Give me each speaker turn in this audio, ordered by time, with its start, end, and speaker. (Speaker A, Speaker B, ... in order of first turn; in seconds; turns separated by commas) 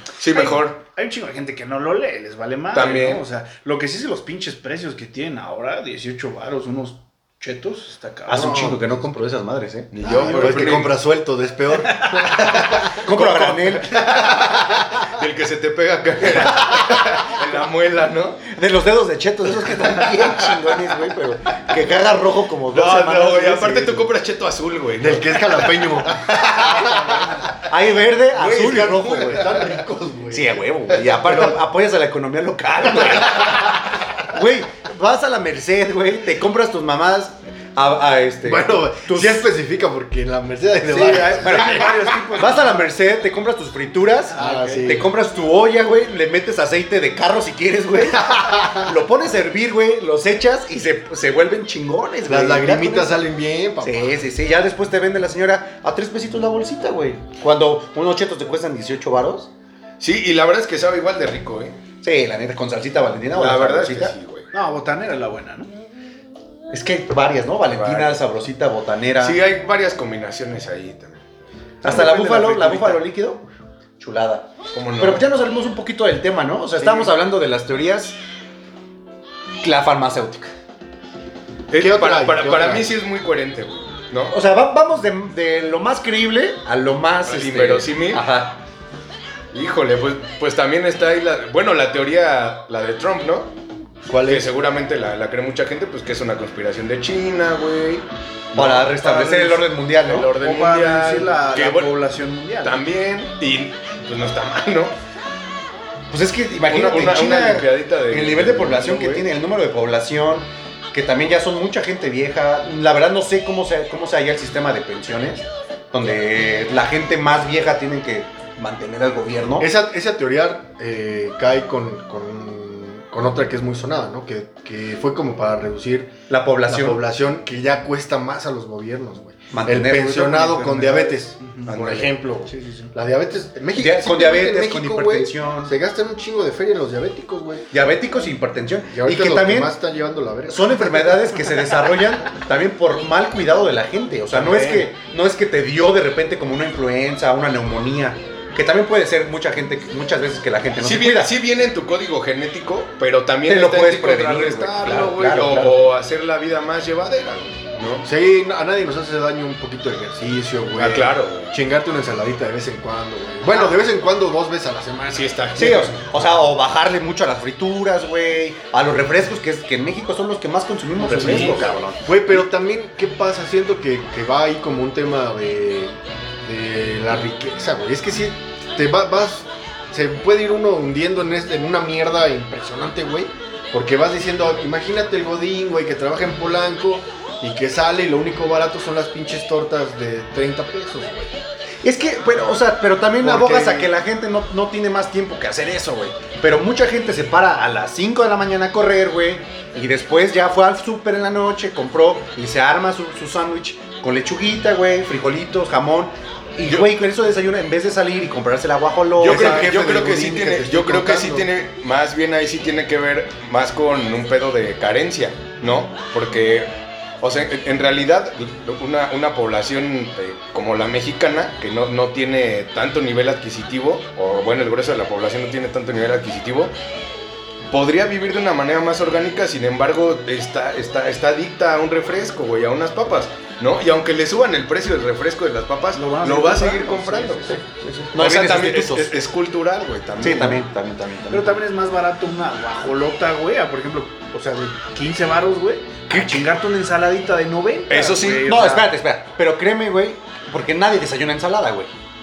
Speaker A: 0.2-0.8, Speaker B: 0.2-8.8, Speaker A: 2.7-3.2, Speaker C: 8.3-9.9, Speaker D: 8.3-9.0, Speaker A: 9.9-11.0, Speaker D: 10.0-12.9, Speaker B: 10.1-10.8, Speaker A: 12.5-18.4, Speaker C: 12.8-14.0, Speaker C: 18.5-24.1, Speaker A: 22.7-26.7, Speaker D: 25.0-26.9, Speaker C: 27.5-29.8, Speaker D: 28.3-31.6, Speaker C: 30.3-39.5, Speaker D: 38.4-42.2, Speaker B: 40.9-42.9, Speaker C: 41.4-53.2, Speaker B: 44.3-45.0, Speaker D: 44.4-45.1, Speaker D: 48.1-48.9, Speaker D: 52.2-54.2, Speaker C: 53.8-59.5, Speaker A: 60.0-61.8, Speaker C: 62.0-64.1, Speaker A: 63.3-64.5, Speaker B: 64.5-65.7, Speaker C: 66.7-69.4, Speaker A: 67.7-68.2, Speaker A: 69.2-71.2, Speaker B: 71.8-73.0, Speaker C: 71.8-73.5, Speaker C: 74.0-78.2, Speaker A: 74.7-75.2, Speaker C: 79.6-80.5, Speaker A: 81.7-84.3, Speaker D: 81.8-83.0, Speaker C: 84.3-88.6, Speaker A: 87.2-88.2, Speaker A: 89.5-93.5, Speaker D: 94.1-94.5, Speaker A: 94.2-99.3, Speaker C: 98.5-100.3, Speaker B: 99.0-99.7, Speaker A: 100.0-101.9, Speaker B: 100.4-102.8, Speaker A: 102.6-104.9, Speaker C: 106.1-119.7, Speaker A: 106.7-109.2, Speaker D: 119.6-137.7, Speaker C: 126.3-127.0, Speaker C: 129.5-130.6, Speaker B: 130.4-131.9, Speaker A: 131.7-132.1, Speaker B: 132.5-132.9, Speaker C: 133.8-135.7, Speaker C: 137.7-139.7, Speaker D: 138.9-141.5, Speaker C: 140.5-151.3, Speaker A: 150.8-158.1, Speaker C: 153.4-155.8, Speaker D: 158.0-165.4, Speaker A: 160.8-161.6, Speaker A: 165.1-166.1, Speaker C: 165.6-172.4, Speaker D: 171.1-191.3, Speaker A: 171.1-171.6, Speaker C: 191.8-209.7, Speaker D: 193.2-193.9, Speaker D: 209.2-211.5, Speaker A: 209.2-226.7, Speaker A: 227.7-237.6, Speaker B: 235.9-237.7, Speaker C: 238.1-239.1, Speaker A: 238.1-240.6, Speaker C: 240.2-241.6, Speaker B: 241.3-248.9, Speaker C: 246.1-246.5, Speaker A: 247.9-248.6, Speaker C: 248.4-251.9